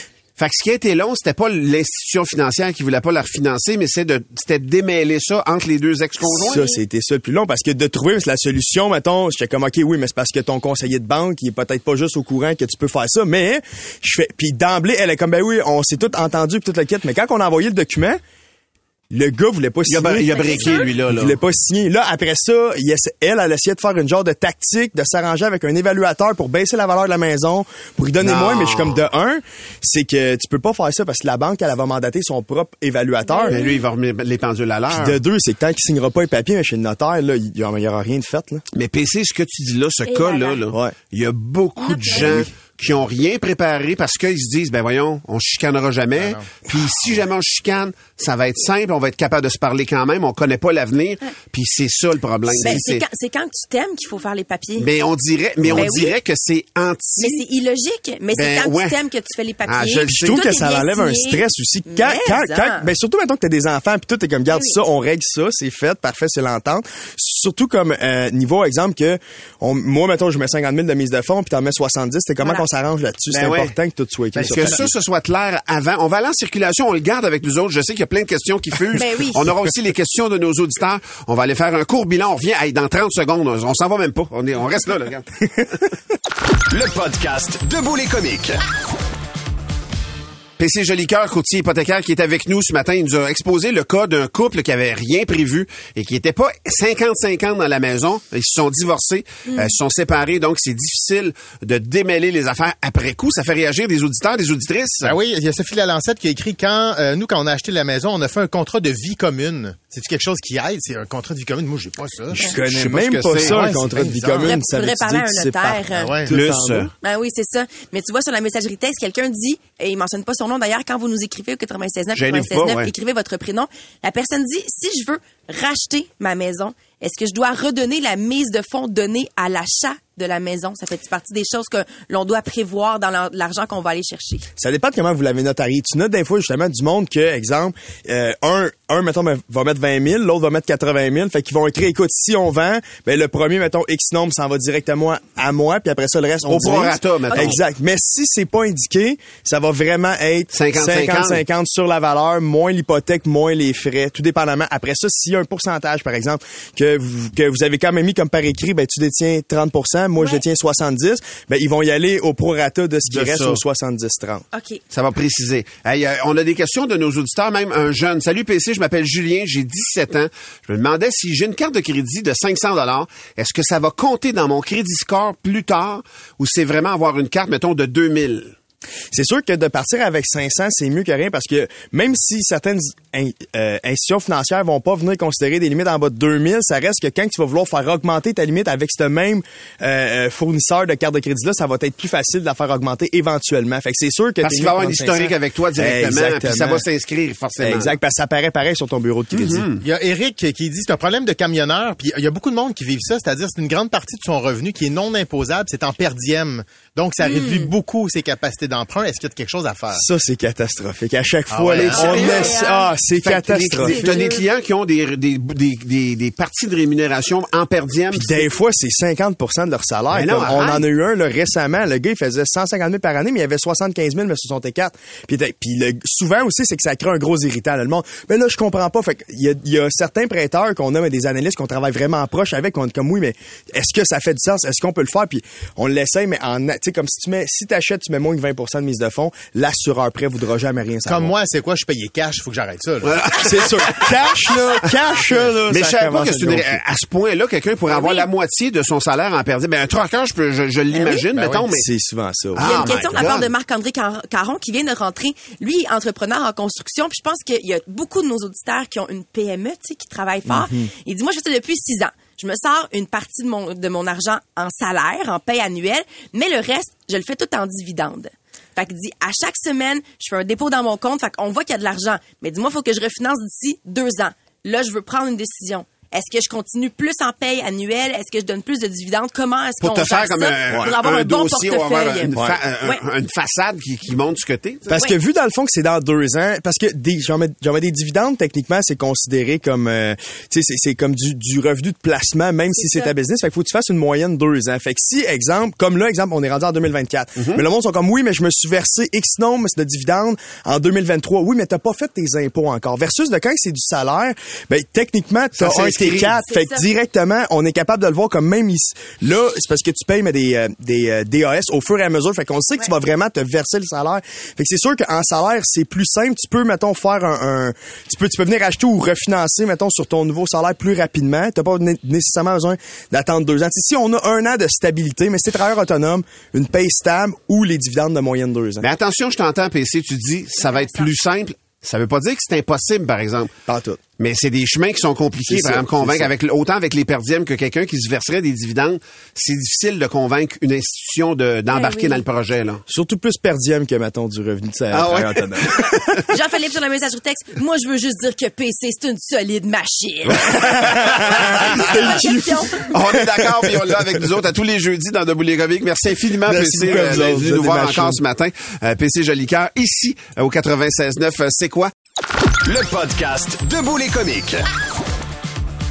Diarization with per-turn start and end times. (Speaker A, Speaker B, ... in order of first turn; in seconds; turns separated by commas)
Speaker A: 0.4-6.7, Speaker B: 6.2-18.2, Speaker B: 19.1-33.7, Speaker A: 19.9-21.4, Speaker C: 20.3-20.9, Speaker A: 28.2-29.0, Speaker C: 33.2-33.8, Speaker A: 33.5-35.2, Speaker B: 34.9-38.6, Speaker A: 38.7-53.0, Speaker C: 40.0-40.6, Speaker C: 41.8-42.5, Speaker B: 42.1-42.5, Speaker B: 52.5-52.8, Speaker C: 52.6-54.9, Speaker A: 54.8-57.4, Speaker B: 55.6-55.9, Speaker C: 55.7-56.1, Speaker C: 57.2-62.9, Speaker A: 58.3-59.0, Speaker A: 59.7-60.5, Speaker B: 60.1-74.9, Speaker C: 64.5-64.8, Speaker C: 72.4-72.7, Speaker A: 73.3-73.7, Speaker A: 74.3-85.3, Speaker C: 78.9-79.5, Speaker D: 86.7-88.6, Speaker A: 90.6-105.1, Speaker E: 105.0-112.5, Speaker B: 112.3-116.9, Speaker A: 112.4-113.9, Speaker E: 113.3-114.5, Speaker C: 114.4-116.1, Speaker E: 115.9-116.3, Speaker A: 116.3-116.9, Speaker C: 117.0-134.5, Speaker A: 122.1-122.9, Speaker B: 134.6-164.4, Speaker A: 146.4-147.6, Speaker A: 150.5-151.4, Speaker A: 163.1-163.6, Speaker C: 164.5-164.8, Speaker A: 164.9-178.5, Speaker B: 179.1-196.8, Speaker A: 194.4-197.9, Speaker B: 197.6-199.7, Speaker A: 199.3-199.8, Speaker E: 199.8-210.0, Speaker C: 207.2-207.7, Speaker B: 209.9-214.2, Speaker E: 211.5-212.2, Speaker A: 211.7-212.6, Speaker C: 212.0-212.9, Speaker A: 213.2-218.5, Speaker C: 213.8-214.4, Speaker B: 218.1-241.3, Speaker A: 220.1-220.9, Speaker E: 241.0-243.2, Speaker A: 243.0-251.9, Speaker B: 243.4-246.8, Speaker C: 247.9-248.3, Speaker C: 250.9-251.2, Speaker B: 251.6-253.2, Speaker A: 252.5-253.5, Speaker C: 252.6-283.0, Speaker B: 260.5-260.9, Speaker A: 279.8-284.9, Speaker B: 282.3-282.6, Speaker B: 284.9-328.9, Speaker C: 292.7-293.1, Speaker A: 297.4-297.6, Speaker A: 305.6-306.4, Speaker C: 306.3-306.8, Speaker A: 328.8-333.5, Speaker C: 330.6-331.0, Speaker B: 333.7-334.0, Speaker A: 334.2-342.8, Speaker B: 335.5-336.3, Speaker C: 341.7-342.2, Speaker B: 342.9-346.1, Speaker A: 344.9-346.1, Speaker C: 346.3-352.9, Speaker B: 350.6-354.3, Speaker A: 351.4-352.1, Speaker A: 352.9-361.9, Speaker B: 356.4-358.2, Speaker D: 362.6-364.6